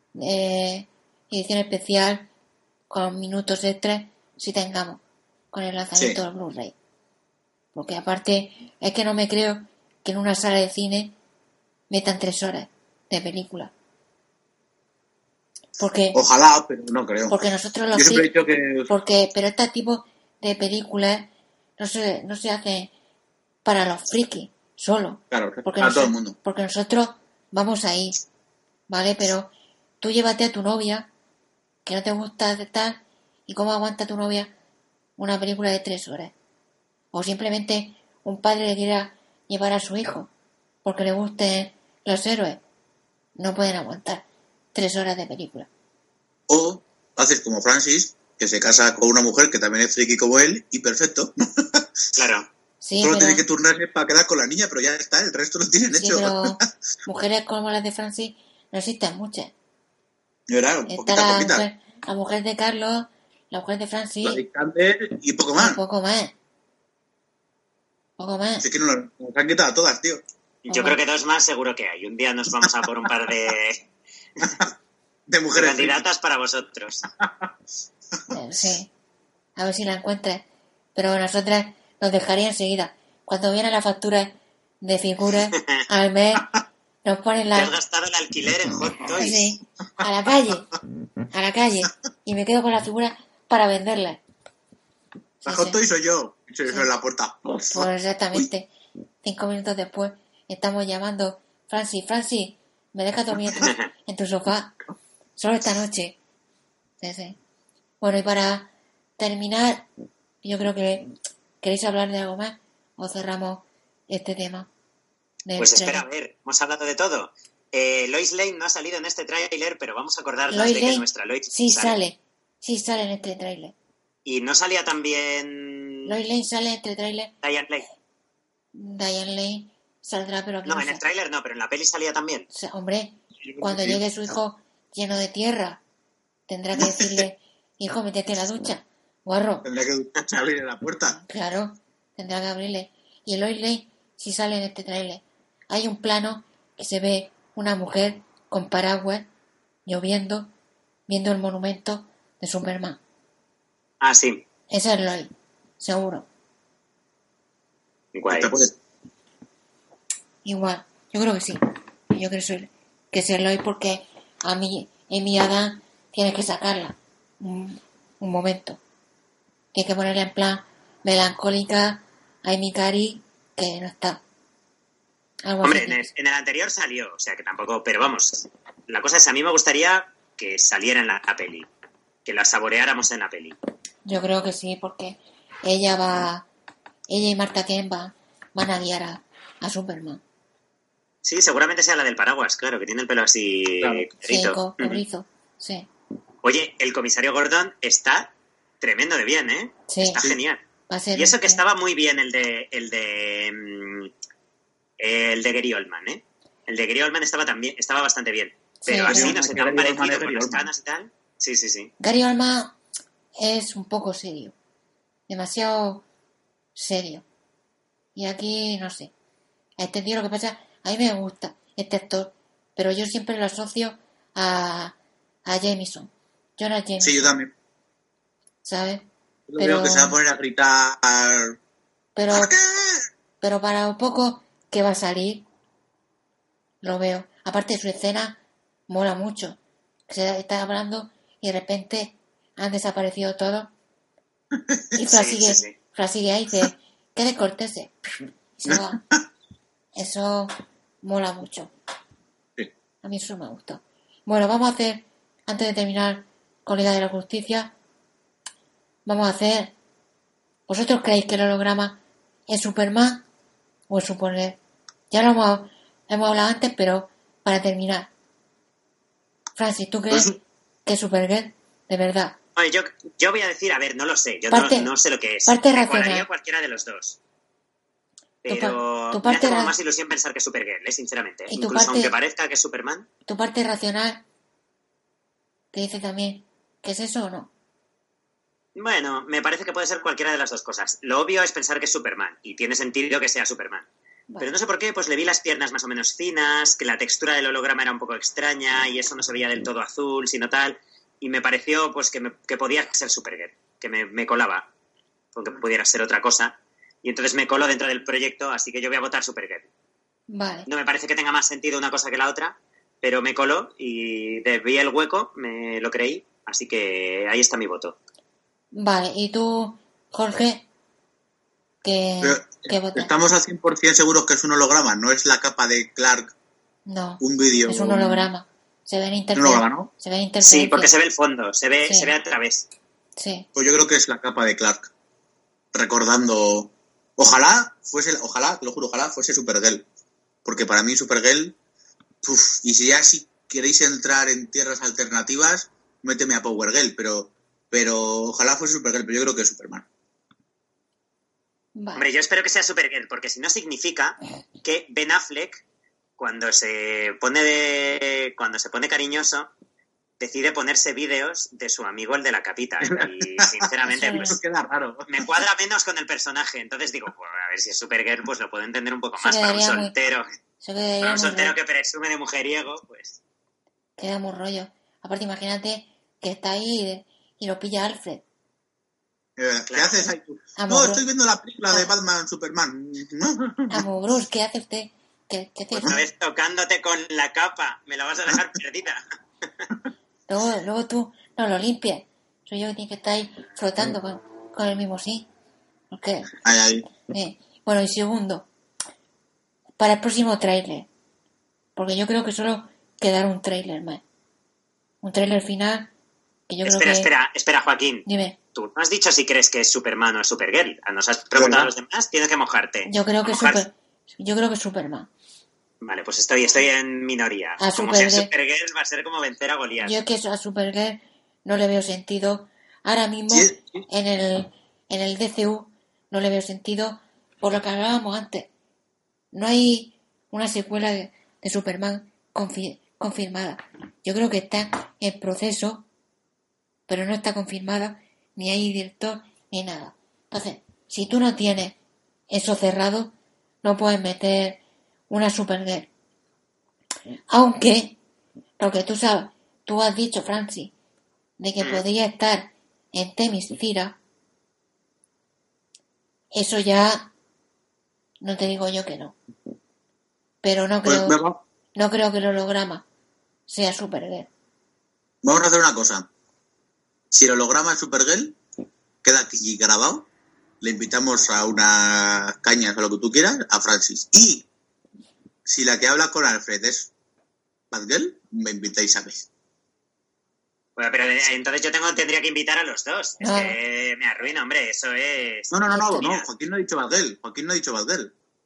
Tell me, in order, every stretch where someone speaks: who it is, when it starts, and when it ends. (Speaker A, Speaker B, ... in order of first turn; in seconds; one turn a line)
Speaker A: 0.1-2.3
Speaker A: 2.9-5.0
Speaker A: 5.5-6.7
Speaker A: 7.7-11.1
Speaker A: 11.9-13.7
Speaker A: 15.8-16.2
Speaker B: 16.1-17.4
Speaker A: 17.3-18.3
Speaker B: 17.9-18.9
Speaker A: 18.9-22.9
Speaker A: 23.6-28.2
Speaker B: 25.3-26.3
Speaker A: 28.9-31.1
Speaker A: 31.8-34.5
Speaker A: 35.2-36.3
Speaker A: 37.1-40.3
Speaker A: 40.8-42.6
Speaker A: 43.4-45.7
Speaker B: 46.5-51.9
Speaker C: 52.1-52.5
Speaker A: 52.8-53.4
Speaker B: 53.0-56.6
Speaker A: 55.9-59.5
Speaker B: 60.5-61.7
Speaker A: 60.9-64.4
Speaker B: 64.2-65.8
Speaker A: 65.5-66.3
Speaker A: 68.2-68.7
Speaker B: 68.6-70.2
Speaker C: 70.6-73.8
Speaker A: 70.7-71.0
Speaker B: 75.3-76.0
Speaker C: 75.5-77.1
Speaker B: 77.2-77.5
Speaker A: 78.3-78.9
Speaker A: 79.5-80.4
Speaker A: 80.9-86.5
Speaker C: 85.5-85.8
Speaker A: 87.0-87.7
Speaker C: 87.5-89.5
Speaker A: 89.2-90.7
Speaker A: 91.3-94.2
Speaker A: 95.4-95.8
Speaker B: 95.5-98.5
Speaker A: 97.7-98.7
Speaker A: 99.2-104.8
Speaker B: 103.3-103.7
Speaker A: 105.3-106.2
Speaker A: 107.0-107.4
Speaker A: 108.0-109.9
Speaker A: 110.4-114.7
Speaker A: 115.5-116.0
Speaker C: 115.6-122.0
Speaker A: 120.5-123.7
Speaker C: 124.2-126.1
Speaker A: 126.0-127.3
Speaker C: 127.4-127.8
Speaker A: 128.7-131.0
Speaker C: 130.6-132.5
Speaker A: 132.5-135.8
Speaker B: 133.4-134.0
Speaker A: 136.5-139.7
Speaker B: 136.8-137.2
Speaker B: 139.6-141.2
Speaker A: 141.1-149.3
Speaker A: 149.8-150.5
Speaker A: 151.1-153.0
Speaker C: 154.0-154.4
Speaker A: 154.7-156.3
Speaker C: 158.1-158.5
Speaker B: 158.3-158.7
Speaker A: 160.4-161.6
Speaker A: 162.1-168.8
Speaker A: 169.7-174.2
Speaker A: 175.4-176.1
Speaker C: 175.6-181.7
Speaker C: 182.2-183.6
Speaker A: 184.1-186.5
Speaker A: 187.1-190.2
Speaker C: 191.2-195.0
Speaker A: 194.2-195.9
Speaker C: 196.4-200.6
Speaker A: 199.9-200.2
Speaker A: 200.9-201.6
Speaker C: 201.1-204.1
Speaker C: 205.0-211.9
Speaker A: 208.8-209.4
Speaker B: 209.0-210.7
Speaker A: 212.0-212.8
Speaker A: 213.4-214.5
Speaker A: 215.3-216.0
Speaker A: 216.7-217.2
Speaker A: 218.1-219.1
Speaker A: 219.8-227.3
Speaker B: 227.0-227.5
Speaker A: 228.6-229.1
Speaker B: 229.5-231.6
Speaker A: 229.6-230.2
Speaker A: 232.1-232.5
Speaker B: 232.3-233.1
Speaker A: 233.4-235.4
Speaker A: 236.8-243.7
Speaker B: 244.5-244.8
Speaker A: 244.9-249.0
Speaker C: 245.1-245.7
Speaker B: 248.7-249.2
Speaker A: 249.9-250.5
Speaker A: 251.0-251.7
Speaker A: 253.0-257.7
Speaker A: 259.1-259.7
Speaker A: 260.7-263.2
Speaker A: 263.9-264.6
Speaker A: 265.1-268.1
Speaker A: 269.6-270.3
Speaker B: 270.1-270.4
Speaker A: 270.9-272.4
Speaker C: 272.6-277.2
Speaker A: 274.5-274.9
Speaker A: 275.5-276.2
Speaker C: 278.4-283.1
Speaker A: 278.5-279.7
Speaker A: 281.5-282.1
Speaker A: 283.2-284.2
Speaker A: 285.7-287.5
Speaker C: 288.7-293.9
Speaker A: 294.3-294.5
Speaker C: 294.4-304.7
Speaker C: 305.3-309.7
Speaker A: 310.3-310.7
Speaker C: 310.6-317.9
Speaker A: 318.7-320.6
Speaker A: 321.8-323.1
Speaker B: 322.2-326.3
Speaker A: 326.9-330.9
Speaker B: 327.2-328.3
Speaker B: 329.3-329.9
Speaker C: 330.4-332.6
Speaker A: 331.9-332.1
Speaker A: 333.2-333.5
Speaker B: 333.5-334.9
Speaker B: 335.7-339.9
Speaker B: 340.4-341.6
Speaker B: 342.2-349.9
Speaker A: 351.8-352.1
Speaker C: 351.9-355.6
Speaker C: 356.2-359.5
Speaker C: 360.2-364.3
Speaker B: 362.8-365.4
Speaker A: 363.9-364.4
Speaker C: 365.1-370.3
Speaker A: 369.2-369.9
Speaker A: 370.6-371.6
Speaker C: 371.0-373.2
Speaker A: 374.0-378.2
Speaker B: 379.4-383.8
Speaker C: 379.7-380.1
Speaker A: 380.6-381.0
Speaker A: 383.7-386.0
Speaker C: 385.7-389.0
Speaker A: 390.3-395.3
Speaker A: 395.9-396.4
Speaker B: 396.4-396.9
Speaker A: 396.9-398.5
Speaker A: 399.8-400.9
Speaker A: 401.8-404.0
Speaker A: 405.0-405.9
Speaker A: 406.5-407.1
Speaker C: 406.6-413.6
Speaker A: 408.1-408.4
Speaker B: 411.3-411.7
Speaker A: 412.8-415.1
Speaker C: 415.8-419.9
Speaker A: 417.6-418.3
Speaker A: 419.8-428.5
Speaker B: 423.3-423.8
Speaker A: 429.3-435.8
Speaker A: 436.9-441.8
Speaker A: 442.3-445.9
Speaker A: 447.3-448.0
Speaker A: 448.6-450.7
Speaker A: 451.4-453.9
Speaker A: 456.3-457.1
Speaker A: 458.2-459.1
Speaker A: 460.4-461.2
Speaker B: 460.8-461.4
Speaker A: 461.7-462.8
Speaker A: 463.5-464.3
Speaker B: 465.2-466.1
Speaker B: 467.1-468.4
Speaker B: 469.0-470.1
Speaker B: 470.6-474.5
Speaker B: 475.4-476.9
Speaker B: 477.7-479.3
Speaker C: 480.8-486.3
Speaker A: 483.2-483.6
Speaker B: 485.5-488.1
Speaker A: 485.7-486.1